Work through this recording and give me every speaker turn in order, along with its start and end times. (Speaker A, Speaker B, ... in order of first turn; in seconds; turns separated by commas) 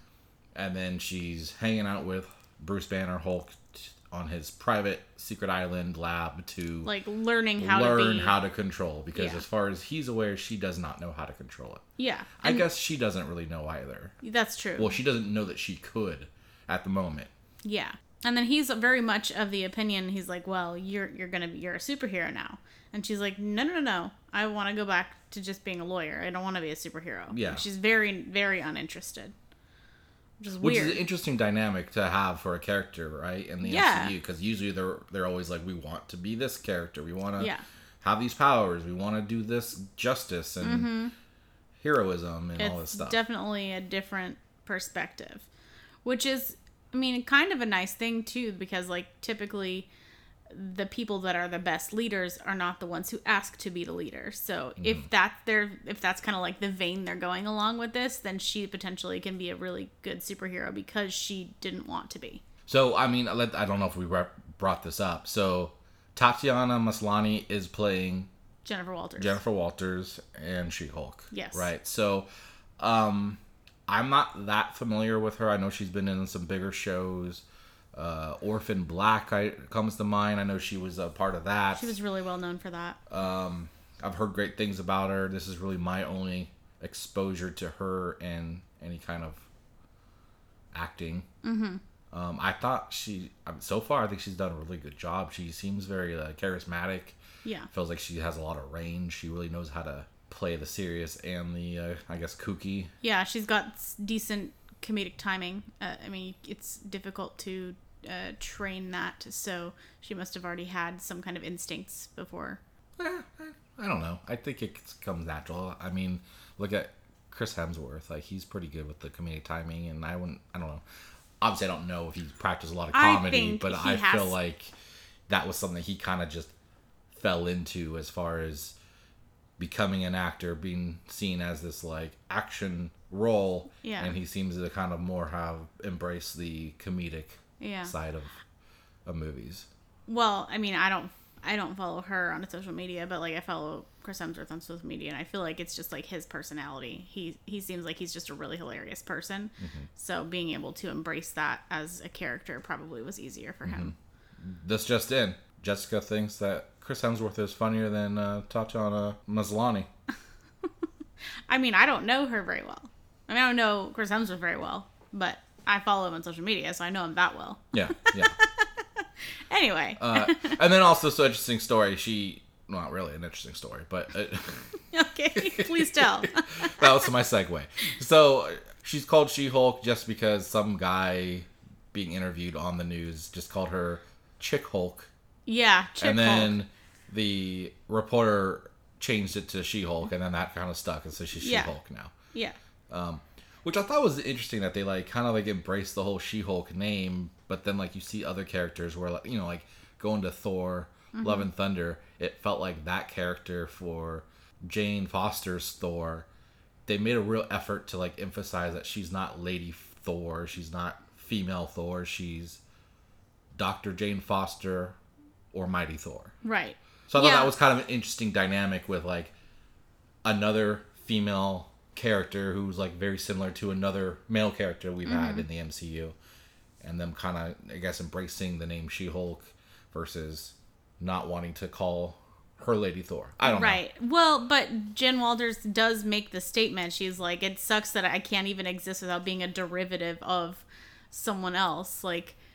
Speaker A: 0.5-6.9, Speaker B: 6.8-8.3, Speaker A: 7.6-11.8, Speaker B: 9.1-9.4, Speaker B: 12.0-12.7, Speaker A: 12.4-14.1, Speaker B: 14.2-14.9, Speaker A: 14.8-17.3, Speaker B: 17.6-29.3, Speaker A: 27.3-27.6, Speaker B: 30.4-31.0, Speaker A: 30.6-40.9, Speaker B: 33.6-34.1, Speaker B: 37.4-37.6, Speaker B: 40.6-41.1, Speaker A: 41.8-43.2, Speaker B: 42.6-45.5, Speaker B: 46.0-49.9, Speaker B: 50.5-62.4, Speaker A: 54.8-55.1, Speaker A: 62.7-68.3, Speaker B: 68.6-69.4, Speaker A: 69.2-72.3, Speaker B: 71.3-71.7, Speaker A: 72.8-81.9, Speaker B: 81.7-83.0, Speaker A: 83.1-89.5, Speaker A: 90.7-91.3, Speaker B: 91.4-91.8, Speaker A: 92.1-97.2, Speaker B: 97.4-97.7, Speaker A: 97.7-102.9, Speaker B: 103.0-112.6, Speaker A: 113.0-120.8, Speaker A: 121.4-124.7, Speaker B: 122.9-124.3, Speaker A: 125.3-126.5, Speaker A: 127.1-128.8, Speaker A: 129.6-138.3, Speaker B: 133.8-134.1, Speaker B: 137.6-137.9, Speaker A: 139.1-139.7, Speaker B: 140.1-153.9, Speaker A: 149.6-149.9, Speaker A: 153.6-159.9, Speaker B: 161.5-170.6, Speaker A: 167.7-168.3, Speaker A: 170.0-174.7, Speaker B: 174.9-177.1, Speaker A: 175.3-185.1, Speaker B: 185.4-186.6, Speaker A: 186.0-192.1, Speaker B: 191.4-191.7, Speaker A: 192.9-206.3, Speaker B: 201.1-201.5, Speaker A: 206.9-212.6, Speaker A: 213.5-215.0, Speaker A: 215.5-216.3, Speaker B: 216.4-217.5, Speaker A: 217.1-219.3, Speaker A: 220.2-226.2, Speaker B: 225.0-225.4, Speaker A: 226.8-233.8, Speaker B: 233.4-242.3